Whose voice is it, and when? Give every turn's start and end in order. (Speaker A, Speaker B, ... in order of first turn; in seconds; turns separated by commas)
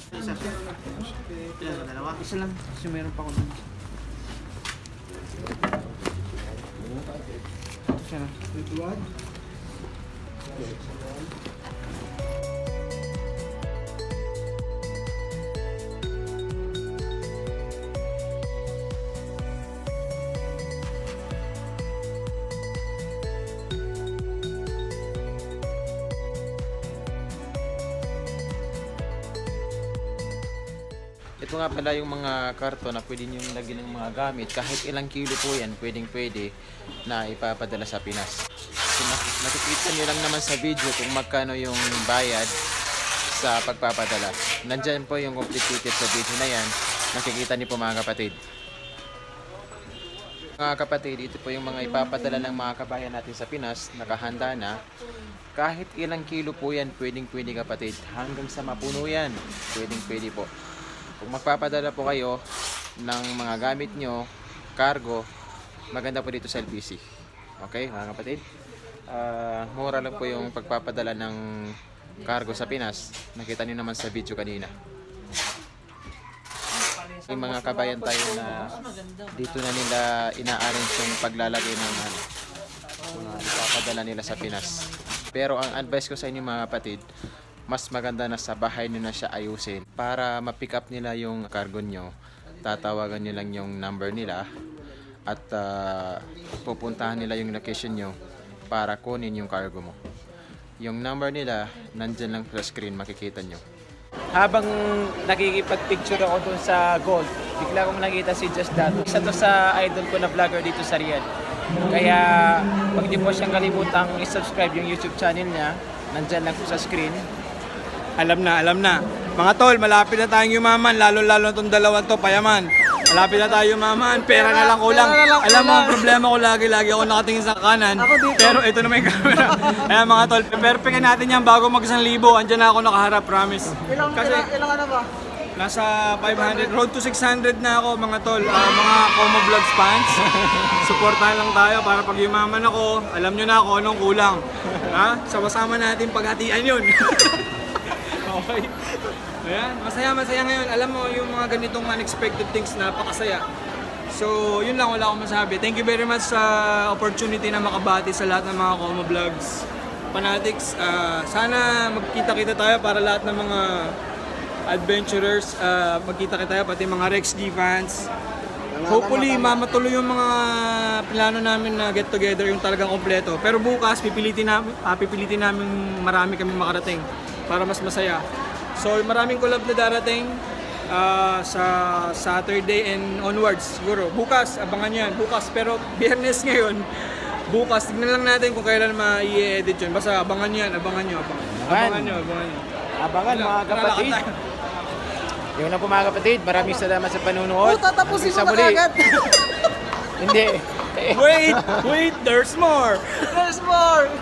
Speaker A: 1.7-2.6, Speaker B: 1.9-3.6, Speaker B: 8.1-8.9, Speaker C: 31.4-36.5, Speaker C: 37.1-42.5, Speaker C: 43.3-48.4, Speaker C: 50.6-54.8, Speaker C: 55.5-60.5, Speaker C: 61.2-62.4, Speaker C: 63.0-65.3, Speaker C: 65.9-67.0, Speaker C: 67.6-68.4, Speaker C: 69.1-71.4, Speaker C: 72.2-74.7, Speaker C: 77.2-82.2, Speaker C: 83.1-87.0, Speaker C: 87.7-92.1, Speaker C: 92.6-94.5, Speaker C: 95.3-98.2, Speaker C: 98.7-100.0, Speaker C: 100.8-103.6, Speaker C: 104.3-111.3, Speaker C: 111.9-117.2, Speaker A: 118.2-134.5, Speaker B: 124.8-125.8, Speaker B: 134.6-135.0, Speaker A: 135.6-153.4, Speaker C: 140.4-140.7, Speaker A: 154.1-163.9, Speaker A: 164.7-168.1, Speaker A: 168.8-178.2, Speaker B: 168.9-169.3, Speaker A: 178.8-192.7, Speaker C: 191.5-192.3, Speaker C: 193.0-194.2, Speaker A: 193.3-194.3, Speaker C: 195.6-198.9, Speaker B: 197.9-198.8, Speaker C: 200.1-201.9, Speaker A: 201.1-203.5, Speaker B: 203.5-204.0